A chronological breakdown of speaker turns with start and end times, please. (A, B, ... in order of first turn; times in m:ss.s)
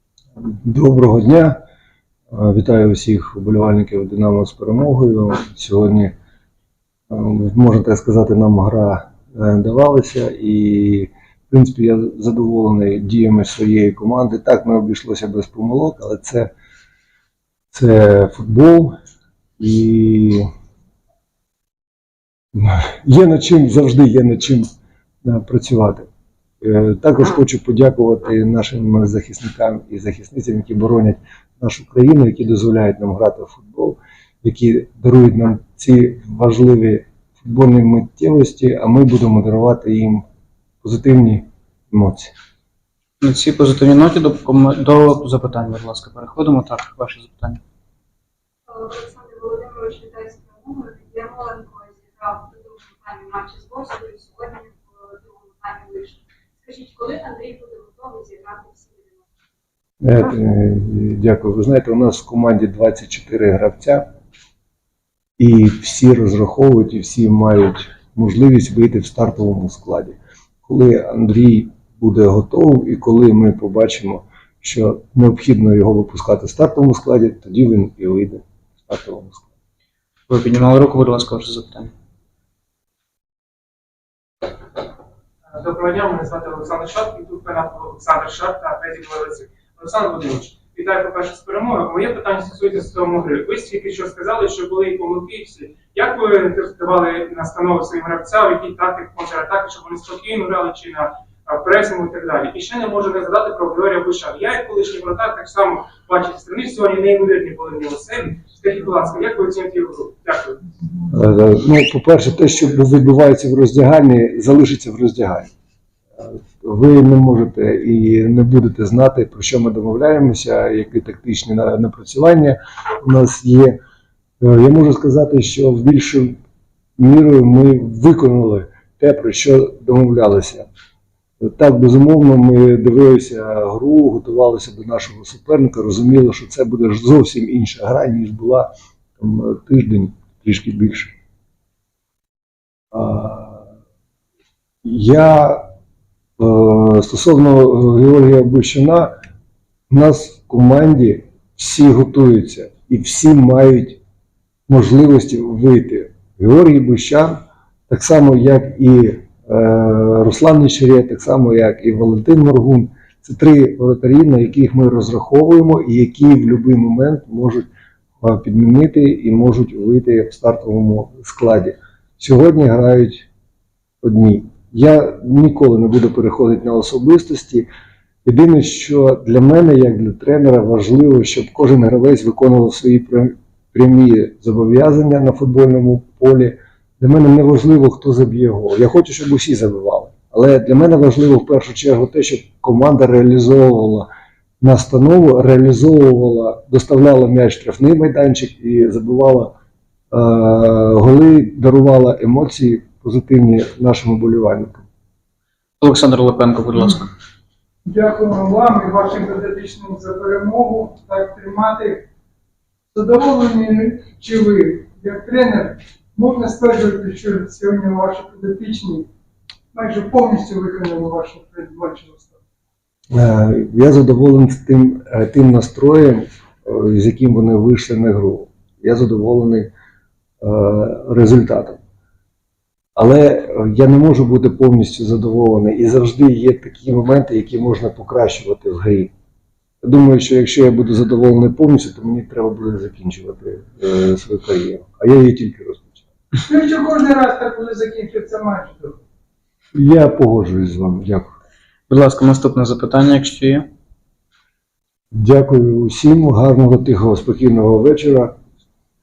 0:00.4-0:01.6 A
0:02.3-0:06.1 A
0:07.1-0:16.5 A
0:17.7-0:18.9 A
0:19.6-0:20.4 A
0:22.5-0:24.7 A
0:25.2-0:26.1 A
0:26.6-0:40.2 A
0:40.8-0:42.3 A
0:43.2-0:47.6 B
0:48.7-0:52.5 C
0:53.1-0:54.6 C
0:55.6-0:56.0 C
0:56.7-0:58.6 C
1:00.0-1:04.0 A
1:05.4-1:19.5 A
1:20.3-1:21.9 B
1:25.5-1:50.6 D
1:51.1-1:55.5 A
1:56.2-2:03.8 A
2:04.4-2:06.4 A
2:07.0-2:10.7 A
2:11.4-2:21.1 A
2:22.9-2:23.6 A
2:24.8-2:25.7 A
2:26.4-2:29.1 A
2:29.9-2:34.0 A
2:34.7-2:37.4 A
2:37.9-2:47.7 A
2:48.2-2:53.3 A
2:54.0-2:57.7 A
2:58.2-3:14.1 A
3:14.6-3:19.5 A
3:20.1-3:24.8 A
3:25.8-3:27.1 B
3:27.8-3:32.0 E
3:32.9-3:39.1 E
3:39.7-3:42.4 E
3:43.1-3:49.7 A
3:50.4-3:51.8 A
3:53.0-3:59.1 A
3:59.8-4:06.0 A
4:06.5-4:09.0 E
4:09.7-4:11.3 A
4:11.9-4:13.7 B
4:15.1-4:18.3 A